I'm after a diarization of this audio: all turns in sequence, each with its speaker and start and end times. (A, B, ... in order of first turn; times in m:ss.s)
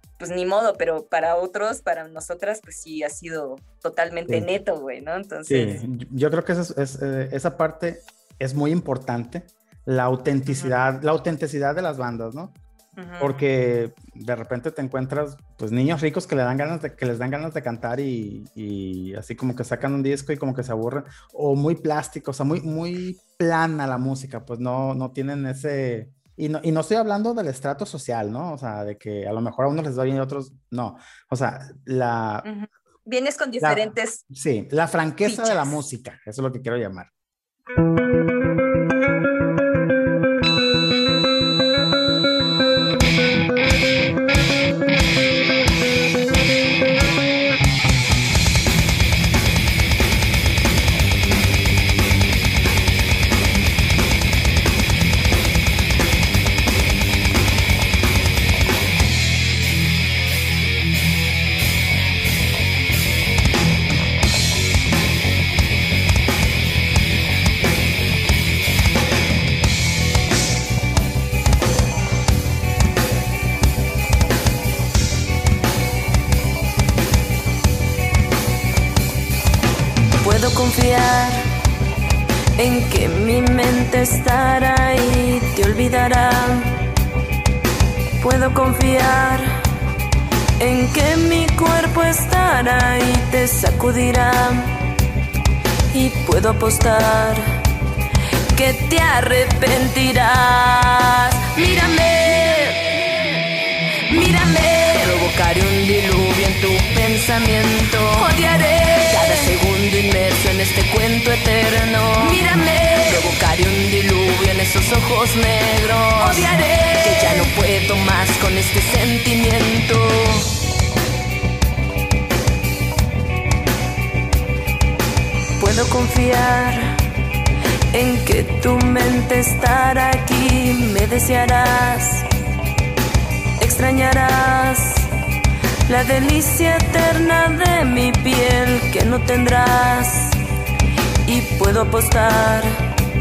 0:00.2-0:05.8 A
0:05.5-0:12.6 B
0:10.5-0:10.7 A
0:13.0-0:13.4 A
0:13.2-0:32.5 B
0:32.4-0:34.2 A
0:33.6-0:37.1 B
0:35.2-0:35.8 A
1:20.2-1:21.4 C
1:22.6-1:26.7 C
1:28.2-1:29.5 C
1:30.6-1:34.7 C
1:35.9-1:37.5 C
1:38.5-1:43.0 C
1:44.1-2:00.5 C
1:49.1-1:49.5 A
1:52.2-1:52.6 A
1:56.2-1:56.4 A
1:57.0-1:57.6 A
2:05.6-2:06.9 C
2:07.9-2:12.2 C
2:13.6-2:15.1 C
2:15.9-2:20.4 C
2:21.2-2:22.7 C